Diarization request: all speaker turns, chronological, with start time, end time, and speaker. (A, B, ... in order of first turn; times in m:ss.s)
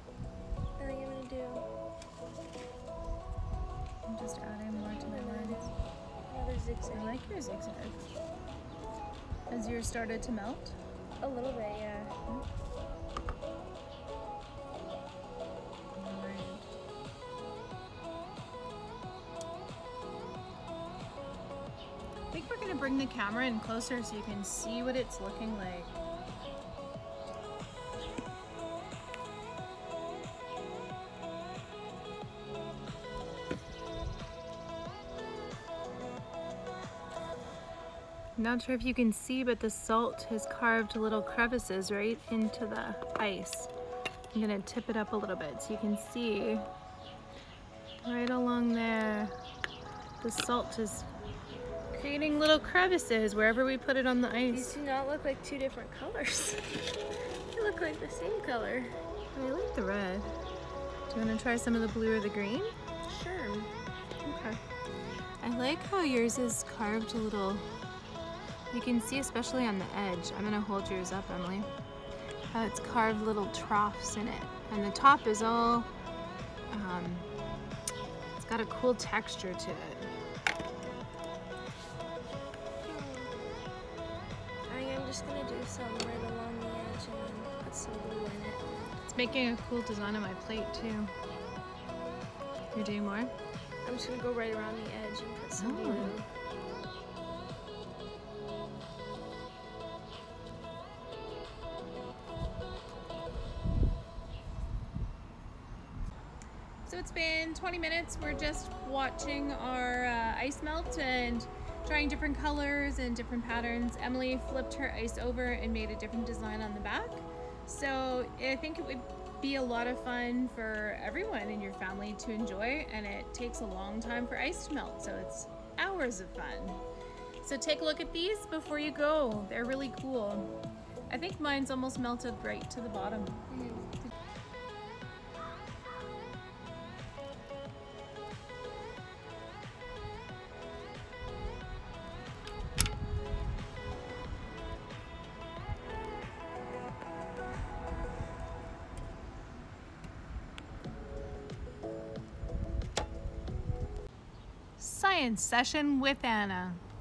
0:00.8-0:01.7 A
0:04.1-0:05.7 B
0:04.9-0:05.7 A
0:06.3-0:07.2 A
0:06.9-0:08.0 B
0:09.5-0:10.8 B
0:11.2-0:12.2 A
0:15.9-0:16.7 B
0:22.3-0:25.9 B
0:38.4-0:43.7 B
0:44.3-0:46.6 B
0:48.0-0:49.4 B
0:50.2-0:51.1 B
0:51.9-0:54.8 B
0:54.5-0:56.7 A
0:57.5-0:59.0 A
0:59.3-1:00.3 B
1:01.1-1:03.7 B
1:04.2-1:04.6 B
1:05.4-1:07.7 B
1:08.7-1:11.7 B
1:12.5-1:15.9 B
1:16.7-1:17.3 B
1:18.4-1:20.1 B
1:22.8-1:23.3 A
1:24.7-1:28.6 A
1:29.0-1:31.1 B
1:32.7-1:33.3 B
1:33.8-1:36.3 A
1:35.6-1:36.2 B
1:46.8-2:06.8 B
2:07.4-2:10.5 B
2:11.1-2:13.4 B
2:13.5-2:13.9 A
2:34.8-2:36.8 B